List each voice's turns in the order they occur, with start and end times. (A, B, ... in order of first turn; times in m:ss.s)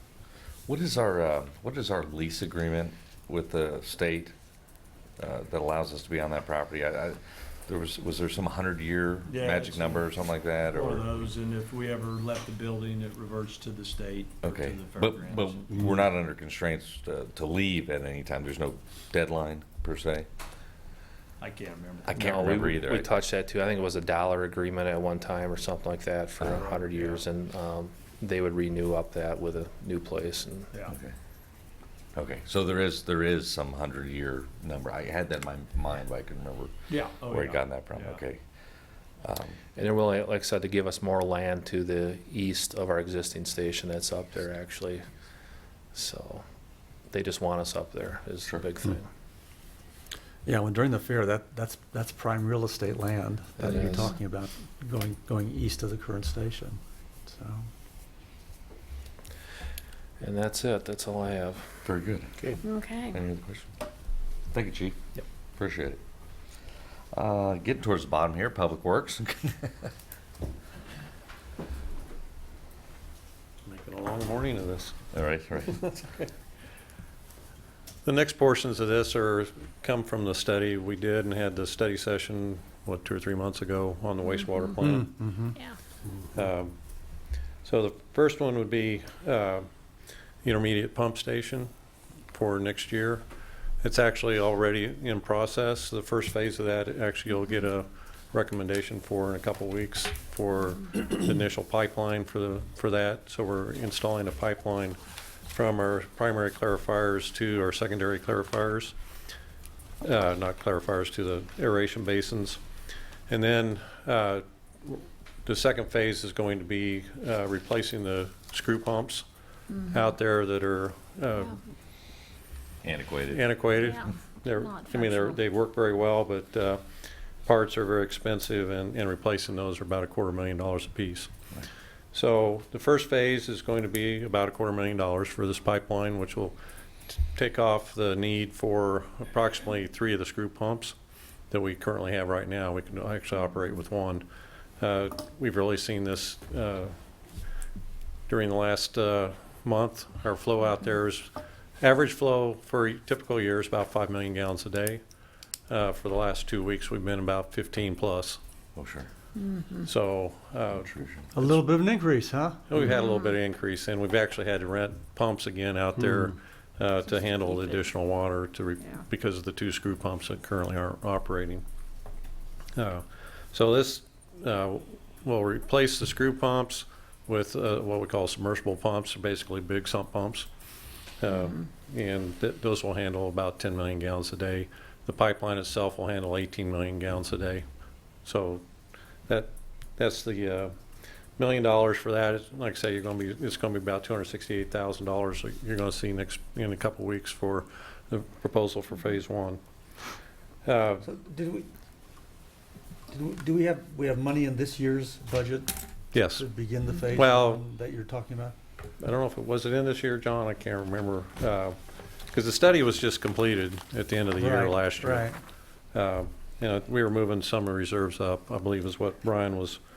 0:00.7-0:04.3 A
0:05.2-0:11.1 A
0:09.2-0:15.9 B
0:14.4-0:20.3 A
0:21.4-0:22.2 B
0:22.0-0:23.1 A
0:22.1-0:30.7 C
0:26.4-0:27.2 B
0:30.9-0:31.1 A
0:32.1-0:38.4 A
0:36.9-0:38.2 B
0:39.2-0:39.6 A
0:39.8-0:45.0 C
0:45.9-0:46.4 C
0:47.1-0:49.1 C
0:50.4-0:57.7 D
0:53.6-0:54.1 C
1:00.2-1:01.8 C
1:01.8-1:02.4 A
1:02.6-1:03.1 E
1:03.1-1:03.8 A
1:04.5-1:05.0 A
1:05.6-1:06.0 A
1:07.1-1:09.9 A
1:13.6-1:14.9 F
1:15.1-1:16.0 A
1:18.0-1:25.2 F
1:24.8-1:25.6 D
1:26.3-1:27.1 F
1:27.6-1:29.6 F
1:30.4-1:31.7 F
1:32.3-1:33.2 F
1:33.8-1:45.0 F
1:45.5-1:48.9 F
1:50.0-1:52.6 F
1:53.3-1:59.2 F
1:59.8-2:01.6 F
2:02.8-2:03.6 A
2:03.3-2:06.8 F
2:03.8-2:05.4 E
2:07.4-2:11.3 F
2:12.1-2:16.6 F
2:17.1-2:20.9 F
2:21.5-2:24.2 F
2:24.8-2:26.9 F
2:28.3-2:35.0 F
2:35.7-2:38.4 F
2:38.8-2:39.1 A
2:39.4-2:39.8 E
2:39.8-2:41.6 F
2:40.8-2:41.2 A
2:41.3-2:42.6 D
2:42.7-2:51.6 F
2:52.7-3:00.5 F
3:01.2-3:07.6 F
3:08.2-3:08.6 F
3:09.3-3:10.7 F
3:11.4-3:19.6 F
3:20.6-3:21.0 F
3:21.0-3:21.7 D
3:23.1-3:28.5 D
3:26.1-3:26.4 F
3:27.0-3:27.6 F
3:29.0-3:31.8 F
3:32.3-3:35.3 F
3:34.3-3:35.4 D
3:35.9-3:39.8 F